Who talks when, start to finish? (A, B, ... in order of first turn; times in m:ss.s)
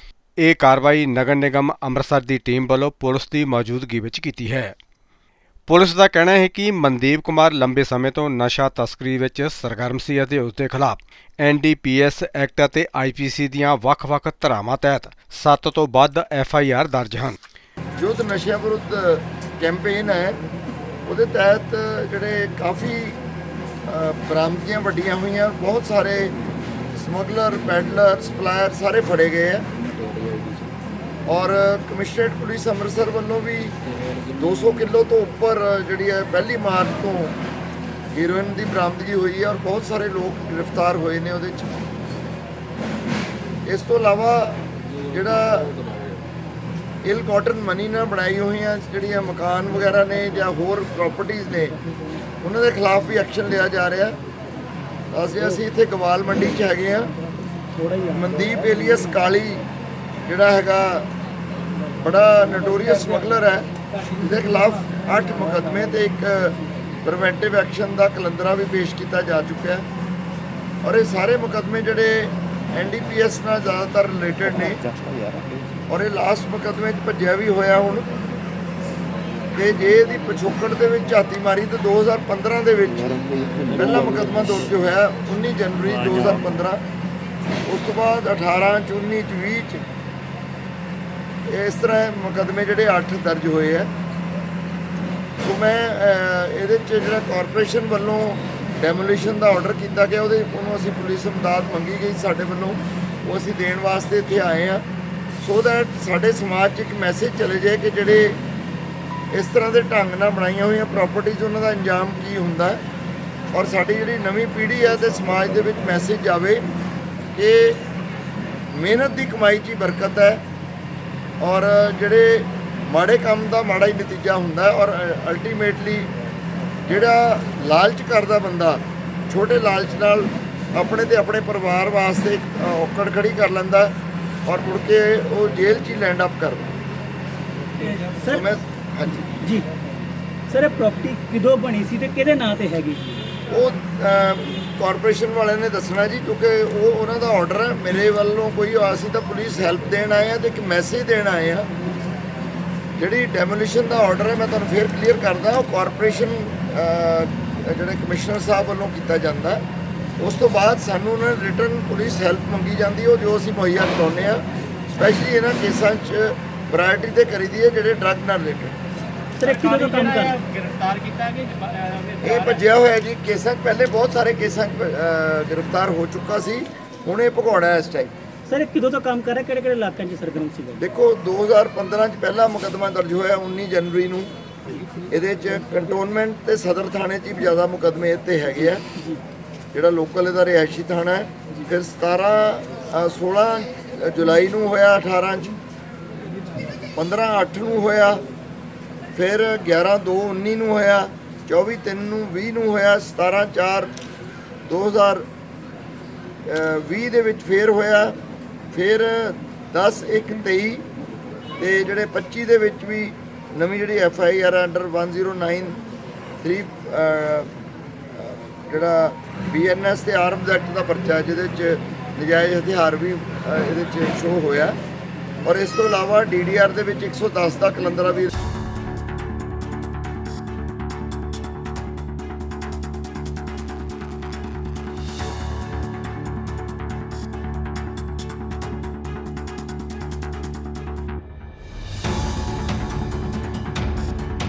0:00.4-0:04.7 A
0:05.7-0:17.4 A
0:18.0-0:20.4 B
0:21.0-0:23.2 B
0:23.8-0:26.3 B
0:26.9-0:29.6 B
0:31.3-0:33.7 B
0:34.3-0:37.3 B
0:38.1-0:41.7 B
0:43.6-0:45.7 B
0:47.0-0:51.8 B
0:52.4-0:54.2 B
0:55.1-0:57.1 B
0:58.0-0:59.6 B
1:00.2-1:01.1 B
1:02.0-1:09.8 B
1:10.8-1:14.8 B
1:15.9-1:18.1 B
1:19.5-1:23.2 B
1:23.7-1:26.8 B
1:27.7-1:29.8 B
1:31.5-1:33.9 B
1:35.4-1:44.8 B
1:45.4-1:48.4 B
1:49.3-1:52.8 B
1:53.5-1:56.6 B
1:57.3-1:57.8 B
1:58.7-2:00.4 B
2:01.4-2:06.1 B
2:06.9-2:13.9 B
2:14.4-2:16.7 B
2:17.8-2:18.4 C
2:18.2-2:19.3 B
2:19.4-2:19.6 C
2:20.5-2:23.1 C
2:23.5-2:31.7 B
2:33.0-2:39.6 B
2:40.2-2:48.7 B
2:49.4-2:50.4 C
2:49.9-2:52.2 D
2:52.2-2:58.1 B
2:58.5-3:00.8 C
3:00.8-3:04.3 B
3:05.1-3:08.8 B
3:09.7-3:15.5 B
3:16.9-3:18.2 B
3:19.1-3:23.9 B
3:24.7-3:25.3 B
3:26.4-3:28.2 B
3:28.7-3:30.8 B
3:31.6-3:35.8 B
3:36.4-3:37.5 B
3:38.1-3:44.8 B
3:45.4-3:48.3 B